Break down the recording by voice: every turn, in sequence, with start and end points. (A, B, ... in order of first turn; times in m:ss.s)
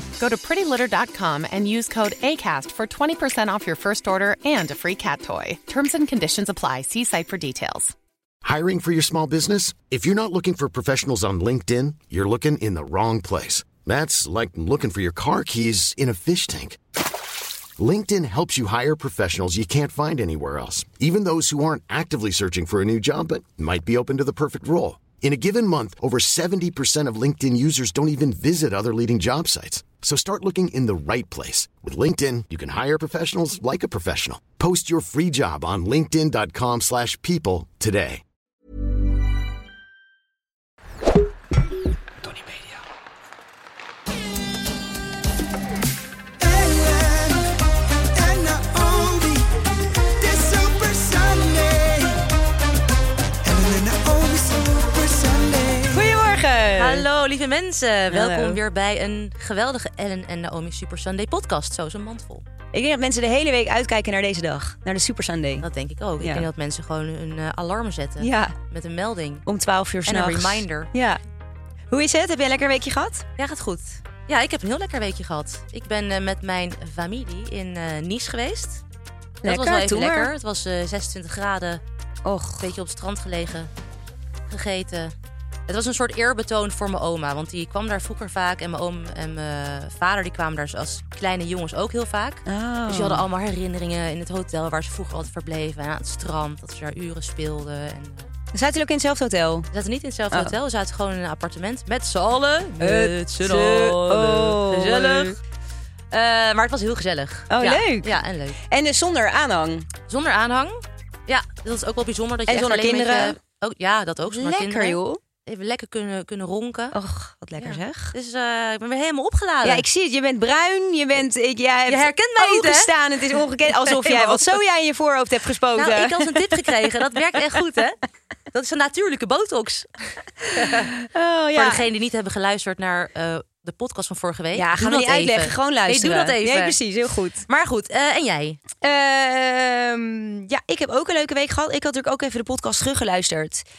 0:00.2-0:07.9 A
0:08.4-0:16.8 B
0:17.8-0:38.2 B
0:46.4-0:49.5 C
0:50.2-0:52.2 C
0:53.4-0:56.1 C
0:55.9-0:57.1 D
0:56.8-1:02.4 E
0:58.1-0:58.6 D
1:02.7-1:05.6 D
1:05.6-1:09.4 E
1:06.2-1:06.4 D
1:08.2-1:08.6 D
1:09.4-1:11.2 D
1:10.0-1:10.9 E
1:11.9-1:13.2 D
1:13.4-1:18.8 E
1:19.4-1:20.3 D
1:19.4-1:21.8 E
1:22.2-1:22.7 D
1:22.6-1:23.7 E
1:24.5-1:25.1 E
1:25.7-1:38.3 E
1:32.4-1:33.2 D
1:38.5-1:39.7 D
1:39.7-1:45.4 E
1:42.8-1:45.4 D
1:46.1-1:48.6 E
1:47.5-1:49.9 D
1:50.1-1:56.9 E
1:52.5-1:53.4 D
1:54.3-1:55.2 D
1:56.9-1:58.1 D
1:57.6-1:59.8 E
1:59.6-2:06.8 D
2:01.9-2:02.9 E
2:03.7-2:04.6 E
2:05.7-2:08.0 E
2:08.5-2:10.9 E
2:10.6-2:11.8 D
2:11.5-2:16.8 E
2:14.5-2:17.4 D
2:17.4-2:18.6 E
2:18.8-2:23.6 D